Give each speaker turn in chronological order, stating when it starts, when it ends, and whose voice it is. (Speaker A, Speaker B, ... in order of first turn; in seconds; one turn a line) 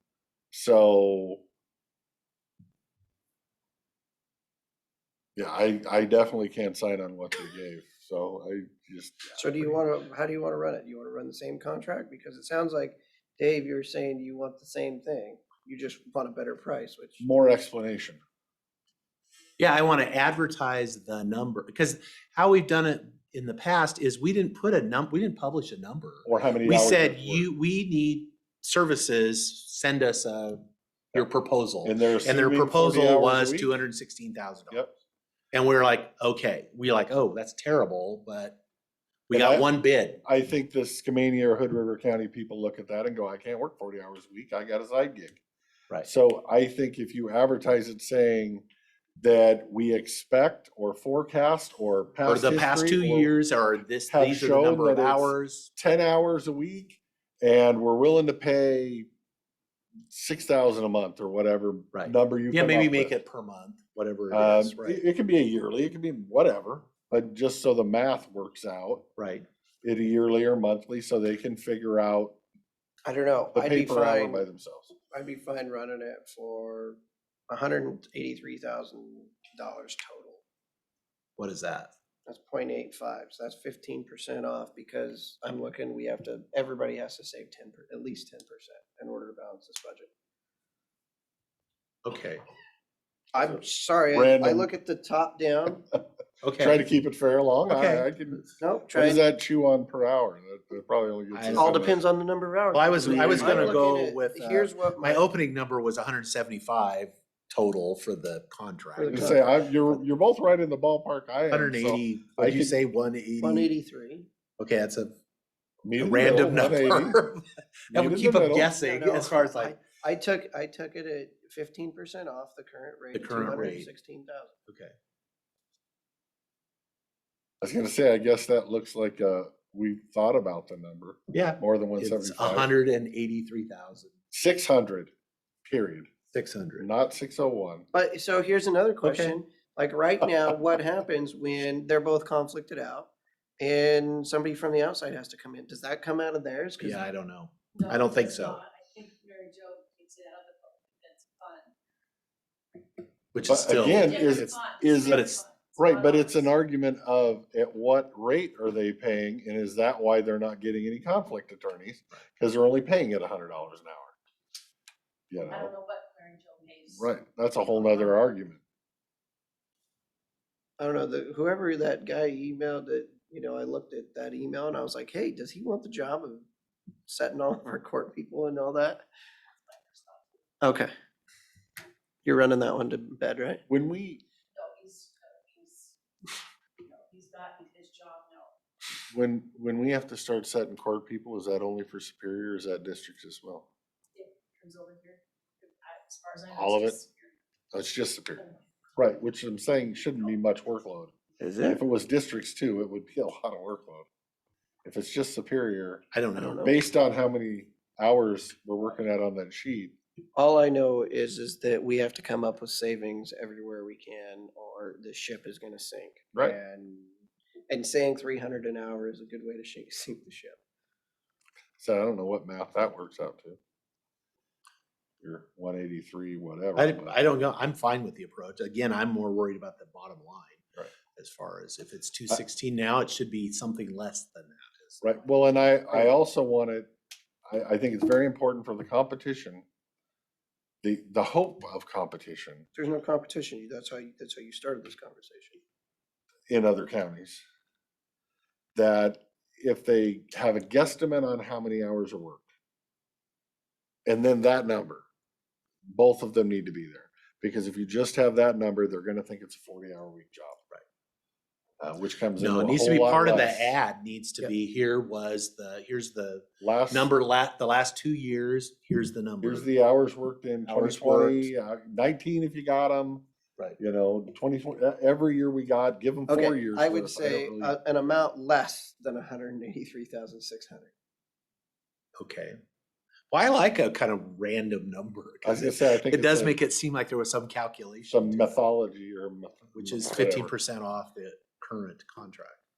Speaker A: 0.5-1.4
Speaker A: 5.3-9.4
Speaker B: 9.4-17.2
Speaker A: 17.2-18.2
Speaker C: 19.6-34.8
Speaker A: 26.2-27.5
Speaker A: 31.8-33.7
Speaker C: 35.5-38.6
Speaker C: 39.3-40.2
Speaker A: 39.3-39.7
Speaker A: 40.2-45.4
Speaker A: 46.0-48.6
Speaker A: 49.2-53.3
Speaker C: 52.2-55.7
Speaker A: 54.1-59.1
Speaker A: 60.1-63.2
Speaker C: 61.9-65.0
Speaker A: 64.3-69.1
Speaker C: 69.2-69.5
Speaker A: 69.8-72.3
Speaker B: 73.0-74.4
Speaker A: 73.5-74.9
Speaker B: 75.1-77.0
Speaker B: 77.5-80.4
Speaker C: 81.4-81.9
Speaker B: 82.3-90.1
Speaker C: 92.0-92.4
Speaker B: 93.3-95.8
Speaker A: 94.1-94.7
Speaker C: 96.4-96.8
Speaker A: 96.6-102.0
Speaker C: 97.7-98.5
Speaker B: 98.6-99.2
Speaker C: 101.3-101.9
Speaker B: 101.5-105.2
Speaker C: 102.7-109.3
Speaker A: 103.0-103.8
Speaker B: 109.0-109.4
Speaker A: 109.1-112.8
Speaker C: 111.5-113.7
Speaker B: 113.4-114.3
Speaker C: 114.6-115.2
Speaker A: 115.8-117.2
Speaker C: 116.0-119.8
Speaker A: 117.9-118.7
Speaker B: 118.7-124.5
Speaker C: 123.1-123.9
Speaker C: 124.7-124.9
Speaker A: 127.6-132.7
Speaker C: 131.3-134.1
Speaker A: 134.3-135.1
Speaker A: 135.6-136.1
Speaker C: 136.3-136.9
Speaker A: 136.8-137.9
Speaker B: 137.9-143.1
Speaker C: 139.0-139.4
Speaker C: 140.2-140.5
Speaker B: 143.6-147.0
Speaker C: 146.8-148.6
Speaker D: 147.7-151.7
Speaker C: 153.3-154.5
Speaker A: 153.4-164.1
Speaker D: 153.8-156.5
Speaker C: 155.1-155.4
Speaker A: 165.3-165.7
Speaker D: 165.5-167.1
Speaker A: 166.9-168.6
Speaker D: 167.7-168.2
Speaker B: 170.8-176.4
Speaker B: 177.1-179.0
Speaker D: 179.7-180.3
Speaker B: 180.6-180.9
Speaker B: 182.2-183.6
Speaker A: 183.7-184.2
Speaker D: 184.5-188.5
Speaker A: 189.1-193.7
Speaker D: 194.1-197.3
Speaker A: 196.5-197.0
Speaker A: 197.7-198.4
Speaker A: 199.0-204.1
Speaker B: 201.4-201.8
Speaker A: 204.8-206.0
Speaker C: 206.1-206.8
Speaker B: 206.4-206.7
Speaker A: 206.6-209.9
Speaker B: 210.3-217.1
Speaker B: 217.7-220.6
Speaker A: 221.8-223.6
Speaker A: 225.2-227.2
Speaker C: 226.8-230.6
Speaker C: 231.1-235.2
Speaker A: 235.0-236.9
Speaker A: 237.5-239.6
Speaker A: 240.8-242.7
Speaker B: 242.7-245.6
Speaker A: 246.5-247.4
Speaker A: 248.7-252.4
Speaker A: 254.1-255.0
Speaker A: 255.9-260.6
Speaker A: 261.8-263.8
Speaker C: 262.4-269.7
Speaker A: 266.6-267.1
Speaker A: 269.4-273.2
Speaker C: 270.6-271.5
Speaker A: 273.8-277.8
Speaker B: 276.3-280.9
Speaker C: 282.2-282.5
Speaker C: 283.3-288.6
Speaker A: 285.4-286.6
Speaker A: 288.1-290.5
Speaker C: 289.7-292.6